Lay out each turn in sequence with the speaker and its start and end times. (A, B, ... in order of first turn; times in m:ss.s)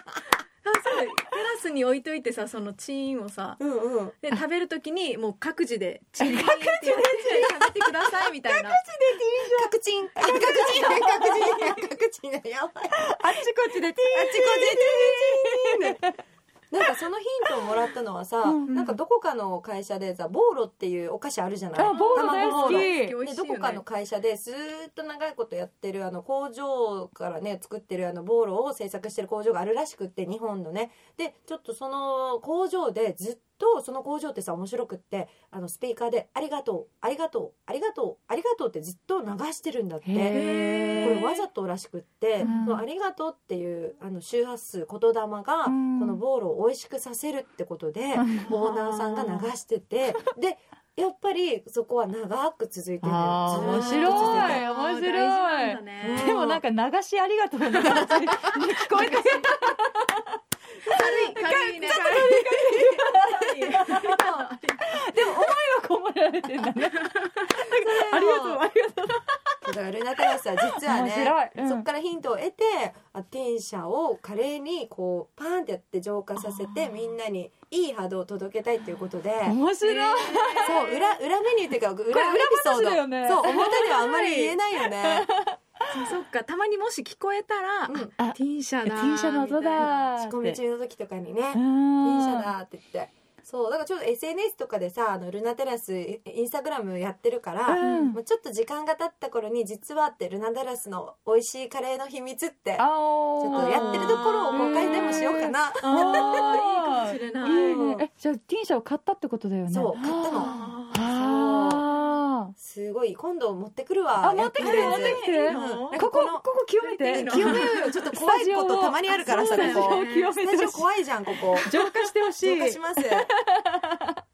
0:00.6-0:03.6 A
0:03.6-0:04.2 B
0:04.2-0:08.8 A
0:06.2-0:07.7 C
0:08.4-0:11.7 C
0:09.4-0:13.5 B
0:10.2-0:11.5 A
0:13.0-0:16.1 C
0:14.1-0:16.1 B
0:16.7-0:40.4 B
0:18.4-0:18.7 C
0:18.7-0:19.0 A
0:21.7-0:23.2 C
0:21.8-0:23.8 A
0:40.0-0:41.2 C
0:40.3-0:41.3 A
0:41.0-0:54.7 B
0:42.4-0:42.7 A
0:42.4-0:42.8 C
0:45.6-0:46.2 C
0:48.1-0:48.5 C
0:48.4-0:49.5 A
0:53.0-1:00.2 C
0:53.5-0:56.5 A
0:56.0-0:56.6 B
0:57.8-0:59.8 A
1:00.8-1:05.5 A
1:00.8-1:09.3 C
1:01.9-1:02.2 B
1:06.8-1:07.7 A
1:07.7-1:08.6 B
1:09.6-1:19.6 B
1:10.8-1:11.8 C
1:19.4-1:21.0 C
1:19.8-1:21.0 A
1:20.6-1:25.3 B
1:22.1-1:25.9 C
1:25.9-1:29.9 A
1:27.9-1:28.1 B
1:28.2-1:30.6 C
1:29.8-1:46.4 B
1:31.5-1:32.5 C
1:37.7-1:38.2 C
1:37.8-1:38.1 A
1:42.8-1:52.5 C
1:43.5-1:45.3 A
1:45.8-1:47.8 A
1:47.4-1:48.0 B
1:49.7-1:51.9 B
1:50.3-1:51.0 A
1:52.6-2:01.7 B
1:54.2-2:04.2 C
1:54.6-1:56.0 A
1:56.8-1:57.9 A
1:59.1-2:00.3 A
2:02.4-2:03.3 B